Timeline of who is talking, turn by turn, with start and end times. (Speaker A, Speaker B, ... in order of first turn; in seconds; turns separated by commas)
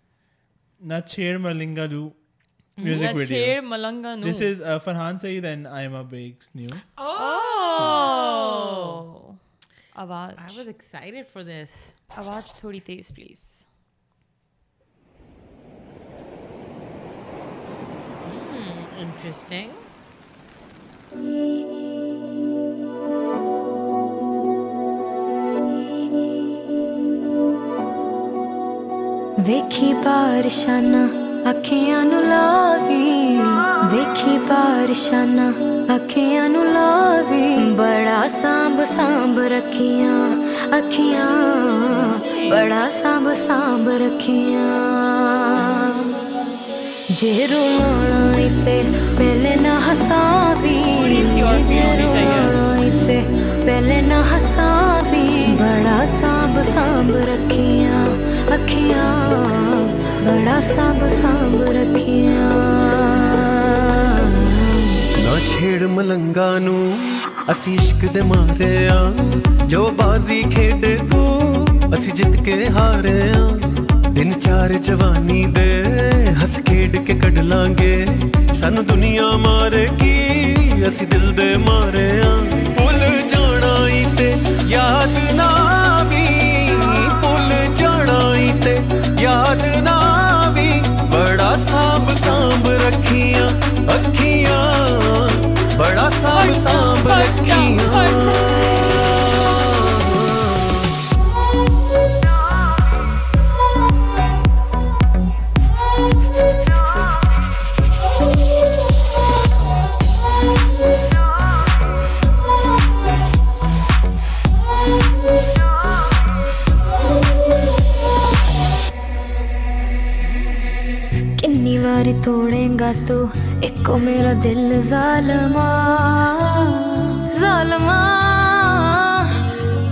Speaker A: 0.8-2.1, Speaker B: 2.8-3.2, Speaker A: 2.8-3.6, Speaker C: 2.8-4.5, Speaker A: 4.2-6.8, Speaker B: 7.0-9.0, Speaker C: 7.2-9.4, Speaker A: 7.7-8.1, Speaker C: 9.9-10.6, Speaker B: 10.4-12.0, Speaker C: 12.1-13.6, Speaker B: 18.2-19.9, Speaker D: 29.4-46.2, Speaker C: 41.9-42.7, Speaker D: 47.1-65.1, Speaker C: 50.9-52.6, Speaker E: 65.2-100.7, Speaker C: 96.3-98.8, Speaker B: 120.2-120.8, Speaker D: 121.4-129.4